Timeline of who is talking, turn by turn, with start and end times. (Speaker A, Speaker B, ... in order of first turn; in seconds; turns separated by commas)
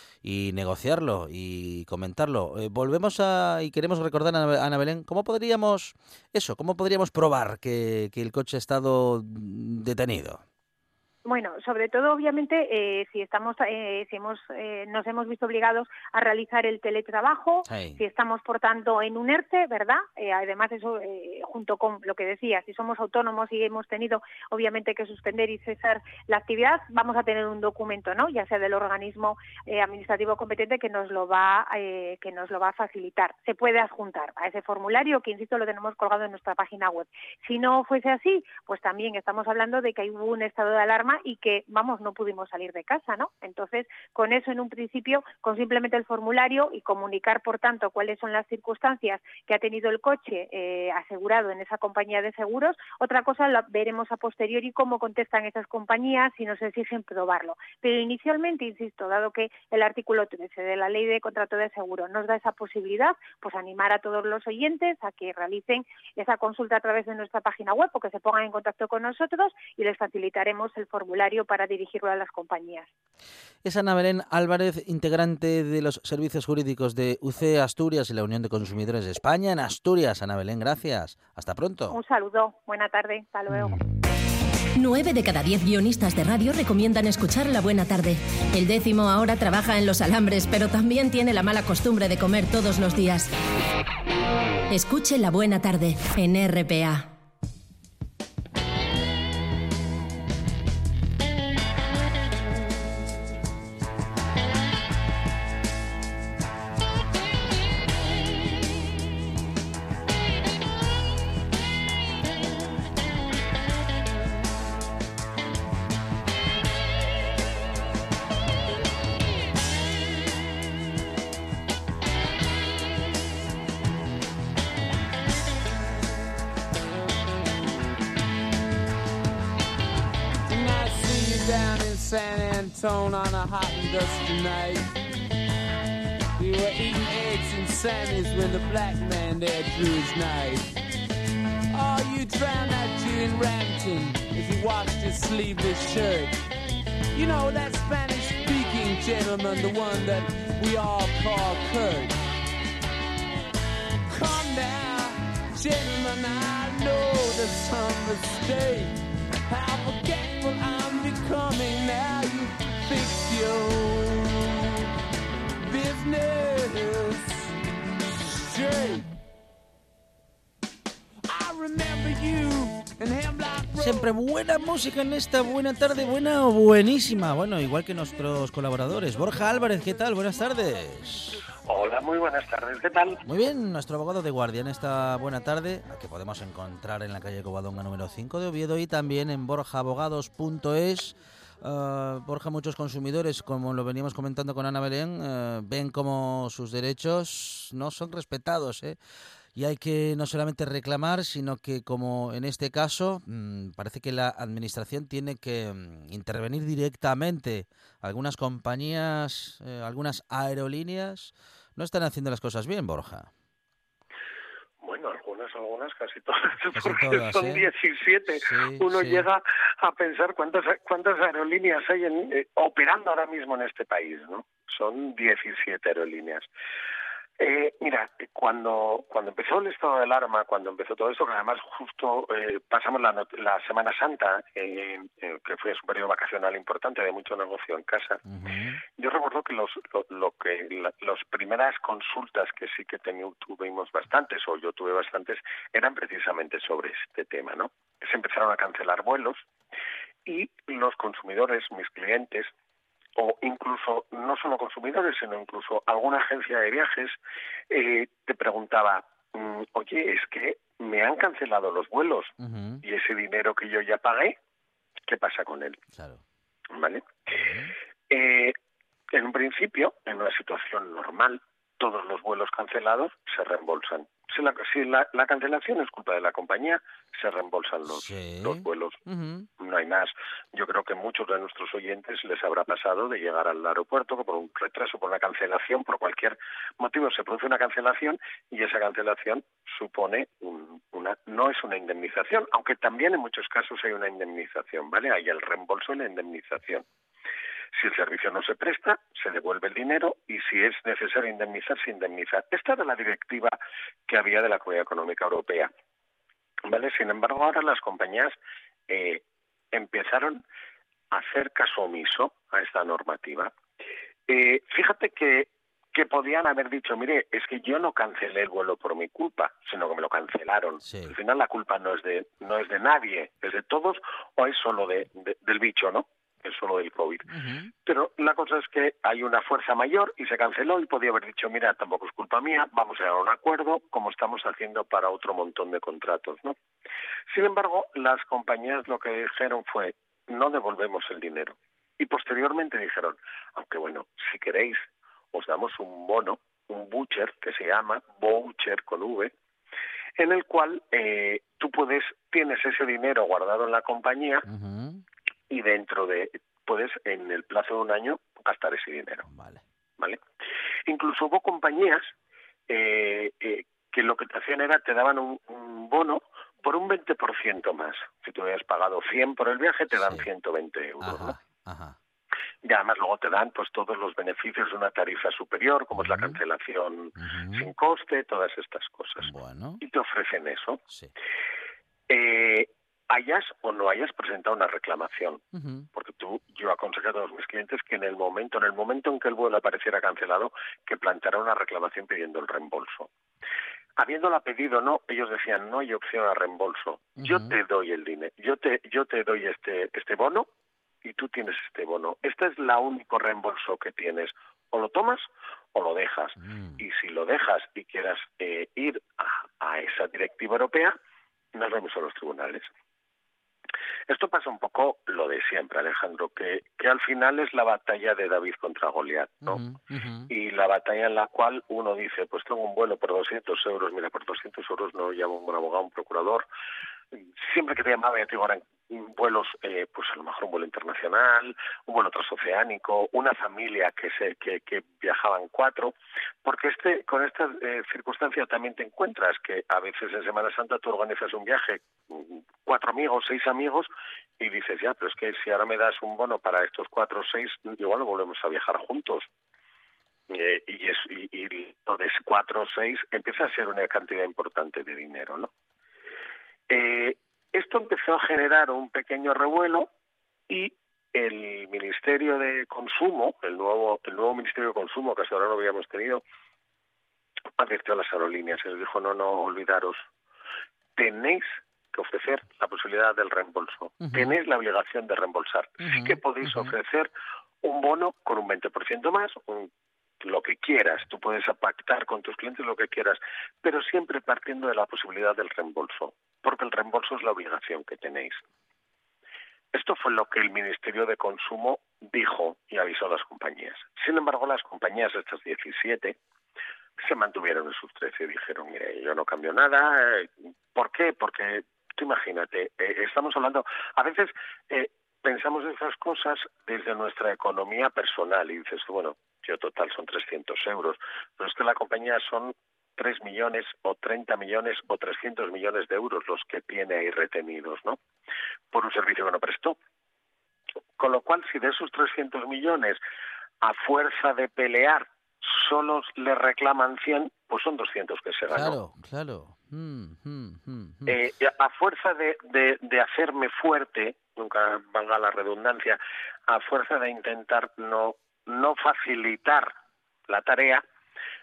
Speaker A: 0.2-10.4, Speaker B: 11.2-72.9, Speaker A: 17.7-18.0, Speaker A: 73.6-82.0, Speaker B: 81.9-83.8, Speaker A: 83.5-83.8, Speaker C: 84.8-93.3, Speaker C: 94.7-97.1, Speaker D: 130.5-134.9, Speaker D: 136.4-140.8, Speaker D: 141.7-146.3, Speaker D: 147.1-152.2, Speaker D: 154.1-159.0, Speaker D: 159.5-164.8, Speaker D: 165.6-167.5, Speaker D: 168.3-169.1, Speaker D: 171.2-174.1, Speaker A: 173.8-181.4, Speaker E: 181.7-183.2, Speaker A: 183.2-199.0, Speaker A: 199.6-213.3, Speaker E: 214.8-226.5, Speaker A: 216.7-217.7, Speaker A: 218.4-219.3, Speaker E: 227.4-238.2, Speaker A: 238.3-238.8, Speaker E: 239.0-249.5, Speaker E: 250.3-252.5, Speaker E: 253.2-257.2, Speaker E: 257.7-264.4, Speaker A: 262.4-262.8, Speaker E: 265.1-265.8, Speaker A: 265.9-266.2, Speaker E: 266.7-267.2, Speaker A: 267.3-267.7, Speaker E: 268.1-268.6, Speaker E: 269.1-279.0, Speaker A: 277.9-279.5, Speaker E: 279.6-296.9, Speaker E: 297.8-303.6, Speaker E: 304.1-305.7, Speaker E: 306.7-308.4, Speaker E: 308.9-310.4, Speaker E: 311.1-313.5, Speaker E: 314.3-327.3, Speaker A: 320.8-321.2, Speaker A: 327.3-327.7, Speaker E: 327.9-336.6, Speaker E: 337.3-349.3, Speaker E: 350.2-354.5, Speaker A: 354.5-355.0, Speaker E: 355.5-359.2, Speaker A: 359.2-359.6, Speaker E: 360.9-362.1, Speaker E: 362.7-371.3, Speaker A: 369.9-370.3, Speaker A: 371.0-372.0, Speaker E: 372.6-380.8, Speaker A: 375.9-376.4, Speaker A: 377.2-377.7, Speaker A: 379.2-379.8, Speaker E: 382.1-385.4, Speaker A: 385.5-385.9, Speaker E: 385.9-393.1, Speaker E: 394.0-400.5, Speaker A: 397.2-397.6, Speaker E: 401.0-411.0, Speaker A: 406.4-406.8, Speaker E: 411.5-412.7, Speaker E: 414.1-419.6, Speaker A: 419.4-420.3, Speaker E: 420.3-426.5, Speaker E: 427.4-449.3, Speaker E: 450.3-455.5, Speaker E: 456.7-459.9, Speaker E: 460.5-466.2, Speaker E: 467.6-470.1, Speaker E: 471.0-477.1, Speaker A: 474.0-474.4, Speaker A: 475.8-476.8, Speaker E: 477.6-479.7, Speaker E: 480.2-488.4, Speaker E: 489.7-496.2, Speaker E: 497.0-518.0, Speaker E: 518.7-519.8, Speaker E: 521.0-523.0, Speaker E: 523.6-528.8, Speaker A: 528.5-531.2, Speaker E: 531.1-539.7, Speaker E: 540.3-540.8